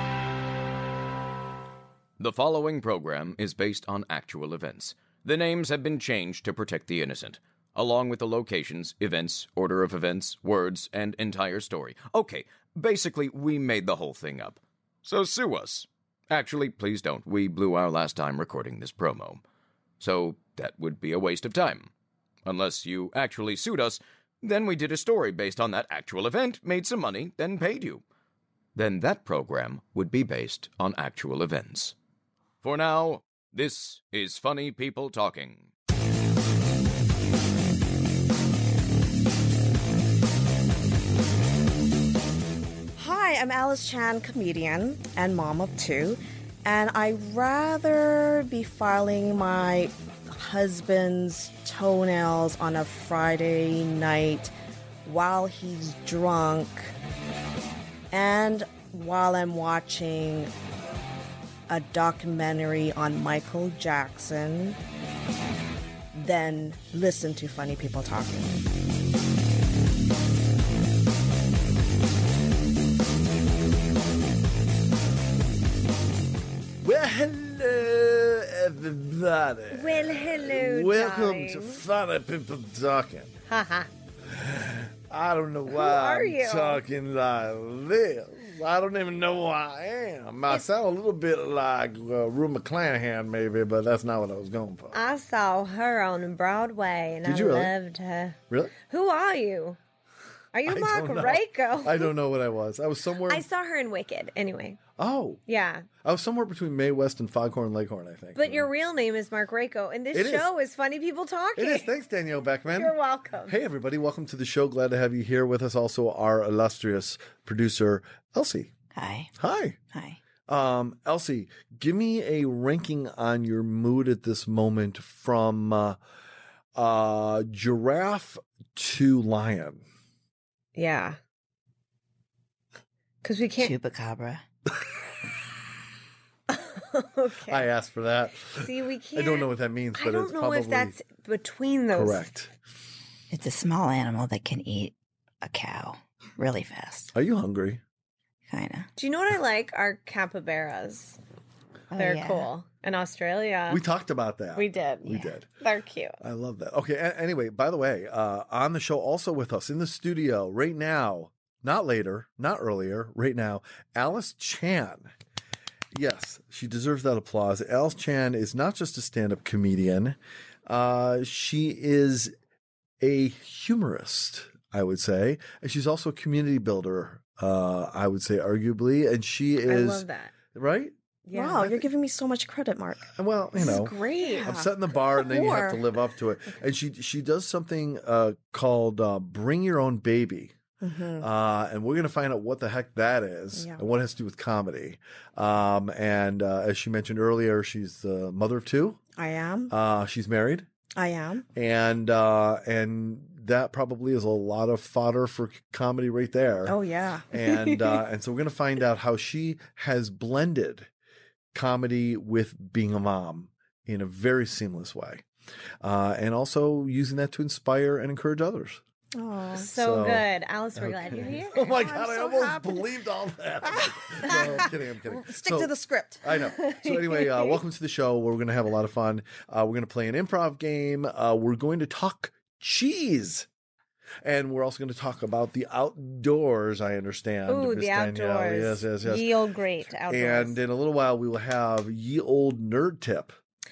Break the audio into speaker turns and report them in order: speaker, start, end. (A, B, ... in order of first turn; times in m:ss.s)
0:02.2-0:19.4 A
0:20.0-0:21.9 A
0:22.5-0:28.0 A
0:28.8-0:32.0 A
0:32.6-0:35.7 A
0:43.0-0:54.5 B
0:55.0-0:56.9 B
0:58.1-1:00.5 B
1:01.7-1:04.8 B
1:06.1-1:08.5 B
1:16.8-1:23.3 C
1:19.7-1:21.8 D
1:23.5-1:23.9 D
1:24.3-1:35.0 C
1:25.7-1:26.8 D
1:34.9-1:39.8 D
1:37.2-1:37.7 C
1:40.5-1:42.1 D
1:40.6-1:43.4 C
1:43.3-1:44.8 D
1:45.0-1:45.4 C
1:45.5-1:45.9 D
1:46.0-1:48.7 C
1:48.4-1:51.9 D
1:50.1-1:50.5 C
1:51.6-1:58.7 C
1:52.7-1:53.6 D
1:58.9-1:59.3 E
1:59.4-1:59.8 C
1:59.9-2:00.2 E
2:00.5-2:06.0 C
2:06.8-2:09.8 C
2:10.8-2:11.2 D
2:13.2-2:13.8 D
2:13.6-2:14.4 E
2:16.5-2:17.7 D
2:17.5-2:21.0 C
2:18.6-2:22.3 D
2:21.9-2:22.5 C
2:23.3-2:27.1 E
2:27.1-2:27.8 C
2:28.5-2:28.9 E
2:29.0-2:31.2 D
2:31.9-2:32.5 E
2:32.0-2:33.8 D
2:33.7-2:35.5 C
2:34.6-2:36.2 D
2:36.2-2:45.1 C
2:45.9-2:52.3 C
2:53.0-3:00.9 C
2:59.7-3:00.3 D
3:01.3-3:01.7 D
3:01.3-3:05.8 B
3:03.1-3:10.6 C
3:03.6-3:04.5 D
3:10.8-3:11.3 B
3:11.2-3:19.0 C
3:13.6-3:13.8 B
3:19.2-3:19.7 B
3:19.7-3:20.7 C
3:21.0-3:21.5 B
3:21.6-3:26.8 C
3:26.7-3:27.3 B
3:27.3-3:30.9 C
3:27.5-3:27.8 D
3:31.5-3:35.2 C
3:35.8-3:38.8 C
3:39.2-3:39.7 B
3:39.6-3:41.6 D
3:39.8-3:53.5 C
3:41.6-3:42.9 B
3:43.6-3:46.3 B
3:46.6-3:47.6 D
3:54.2-3:59.3 C
3:57.5-4:00.6 D
4:00.1-4:03.4 C